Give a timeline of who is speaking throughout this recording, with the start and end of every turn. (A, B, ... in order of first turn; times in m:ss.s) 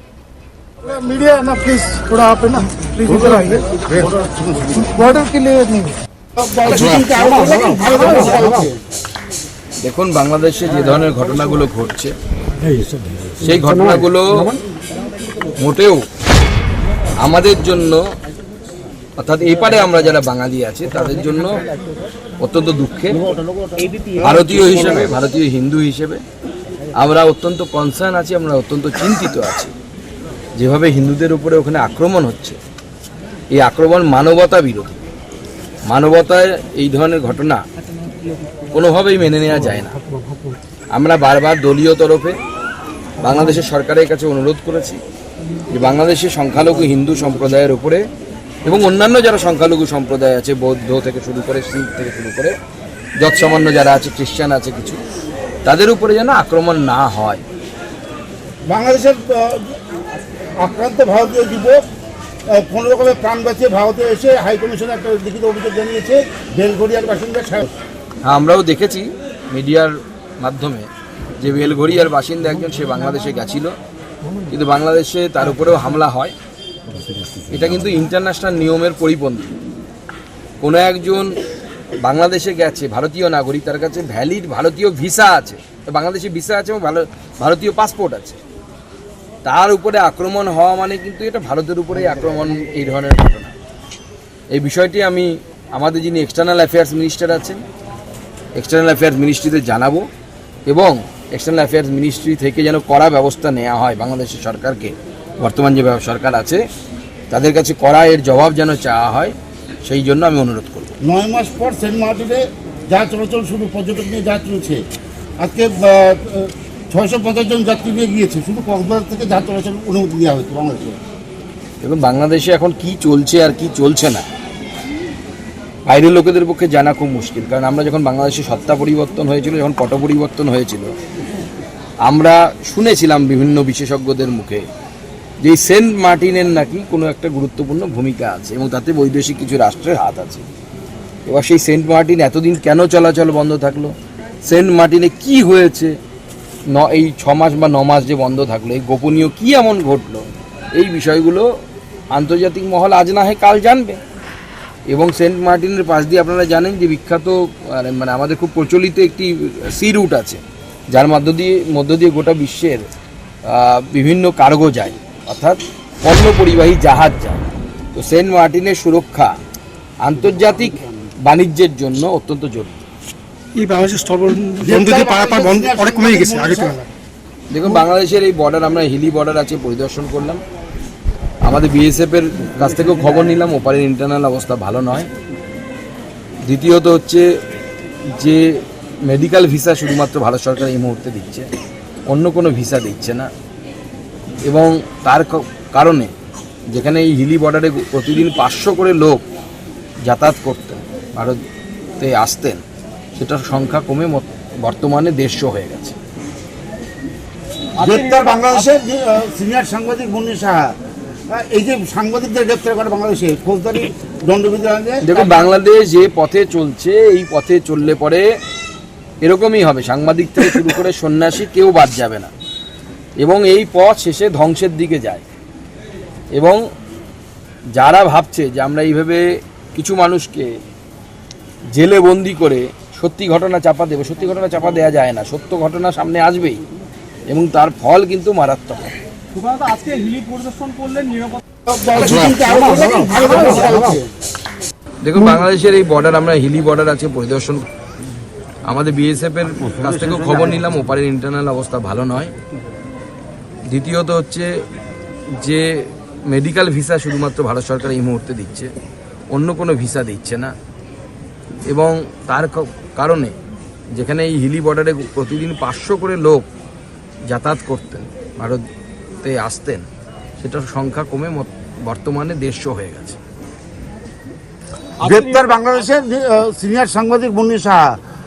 0:00.9-0:05.4 A
0:03.0-0:03.6 B
0:05.1-0:05.8 B
0:06.4-0:08.8 A
0:09.8-0:12.1 C
0:13.4-0:14.6 C
0:15.6-0:16.0 C
0:17.2-0:18.0 C
0:19.2-0:21.6 C
0:22.4-0:23.2 C
0:23.1-0:24.7 A
0:24.2-0:26.2 C
0:27.0-0:29.7 C
0:30.6-0:32.6 C
0:33.5-0:35.0 C
0:35.9-0:37.6 C
0:38.7-0:40.0 C
0:40.9-0:42.4 C
0:43.2-0:45.0 C
0:45.7-0:48.0 C
0:48.6-0:52.5 C
0:53.2-0:55.0 C
0:55.6-0:57.4 C
0:58.7-0:59.8 A
1:00.6-1:01.8 A
1:02.5-1:07.7 A
1:08.2-1:10.9 C
1:11.4-1:13.7 C
1:14.5-1:16.3 C
1:17.5-1:19.5 C
1:20.6-1:21.3 C
1:22.0-1:28.4 C
1:29.4-1:33.5 C
1:34.5-1:37.6 C
1:38.6-1:40.1 C
1:40.7-1:46.6 C
1:47.3-1:50.9 C
1:51.0-1:54.8 A
1:55.4-2:01.0 A
2:01.8-2:04.2 C
2:05.9-2:10.9 C
2:12.0-2:14.7 C
2:15.4-2:20.4 C
2:21.3-2:23.9 C
2:24.4-2:26.0 C
2:26.7-2:31.5 C
2:32.1-2:34.0 C
2:34.9-2:42.8 C
2:43.5-2:49.4 C
2:50.0-2:52.9 C
2:53.6-2:56.8 B
2:54.6-2:56.8 A
2:57.5-3:00.4 C
3:01.4-3:05.1 C
3:06.5-3:07.2 C
3:09.1-3:11.5 C
3:12.1-3:13.3 C
3:14.5-3:16.1 C
3:16.7-3:19.2 C
3:20.1-3:21.4 C
3:22.0-3:22.6 C
3:23.2-3:26.0 C
3:27.8-3:30.8 A
3:27.8-3:28.6 B
3:31.3-3:35.4 A
3:35.0-3:38.3 C
3:39.2-3:42.3 C
3:43.2-3:45.2 C
3:46.3-3:46.6 C
3:47.8-3:49.2 C
3:49.8-3:50.5 C
3:51.7-3:56.6 C
3:57.3-3:58.9 C
3:59.3-4:01.4 B
4:01.7-4:04.1 A
4:05.0-4:07.7 C
4:08.7-4:12.3 C
4:09.8-4:10.4 A
4:13.7-4:14.5 C
4:15.4-4:18.7 C
4:19.3-4:20.5 C
4:21.7-4:23.4 C
4:23.9-4:26.5 C
4:27.3-4:28.6 C
4:29.2-4:29.9 C
4:30.4-4:33.2 C
4:35.0-4:38.0 A
4:35.0-4:35.3 B